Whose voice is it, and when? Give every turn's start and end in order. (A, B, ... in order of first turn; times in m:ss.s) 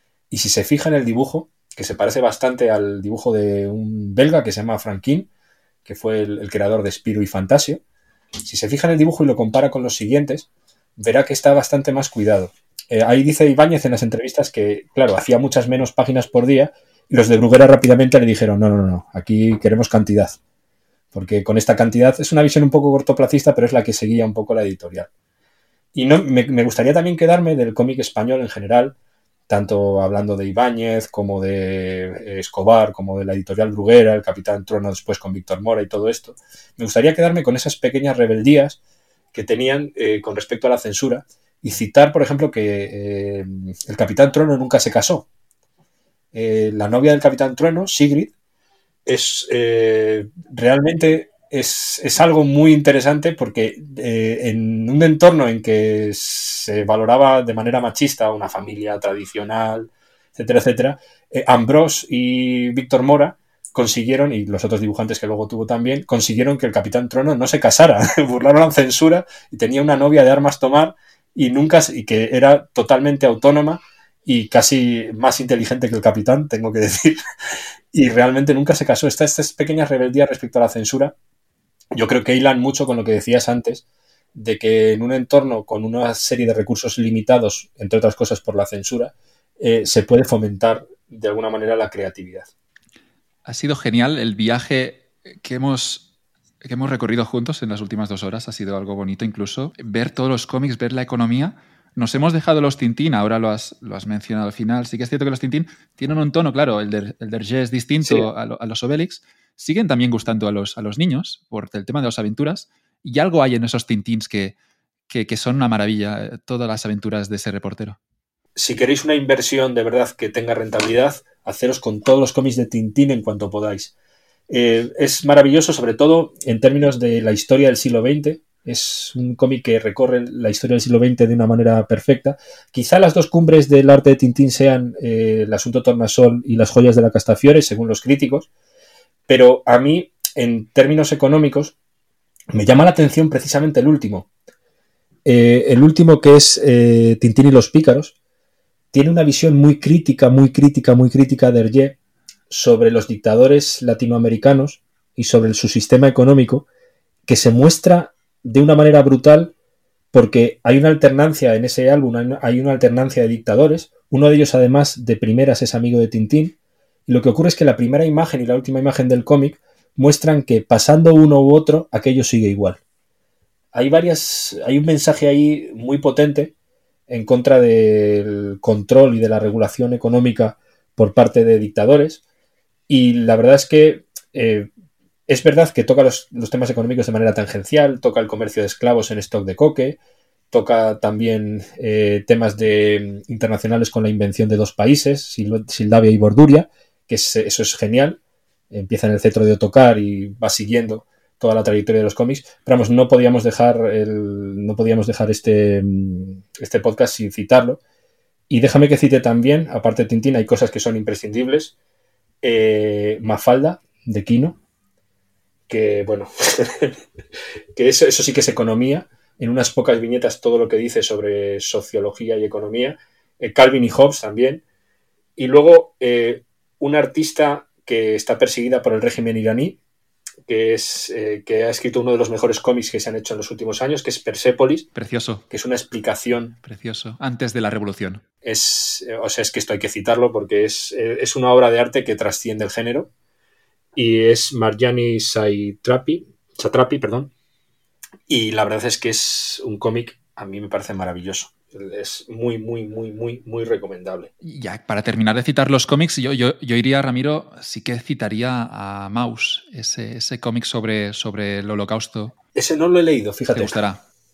0:00.3-0:05.3 A
0:05.8-0:07.8 A
0:08.4-0:20.4 A
0:21.1-0:25.1 A
0:25.9-0:28.9 A
0:29.5-0:38.8 A
0:39.3-0:45.3 A
0:46.3-0:48.3 A
0:49.0-1:17.2 A
1:17.9-1:21.1 A
1:22.0-1:23.8 A
1:24.3-1:32.5 A
1:33.4-1:36.0 B
1:36.6-1:54.6 B
1:55.1-1:58.0 B
1:58.6-2:03.9 A
2:04.5-2:18.5 A
2:19.3-2:21.7 A
2:22.5-2:24.3 A
2:25.2-2:28.1 A
2:28.9-2:32.0 A
2:32.5-2:36.6 A
2:37.3-2:39.5 A
2:40.1-2:46.6 A
2:47.1-2:52.8 A
2:53.7-2:56.5 A
2:57.1-3:02.2 A
3:02.9-3:04.7 A
3:05.3-3:10.0 A
3:10.5-3:18.2 A
3:18.7-3:27.8 A
3:28.5-3:31.7 A
3:32.4-3:34.6 A
3:35.7-3:37.0 A
3:37.7-3:44.6 A
3:45.4-3:49.8 A
3:50.4-3:54.8 A
3:54.9-3:55.4 B
3:55.5-3:56.6 A
3:56.6-3:58.2 B
3:58.4-4:03.1 A
4:04.0-4:07.3 A
4:08.3-4:14.3 A
4:14.4-4:22.3 B
4:22.6-4:23.8 A
4:23.5-4:24.0 B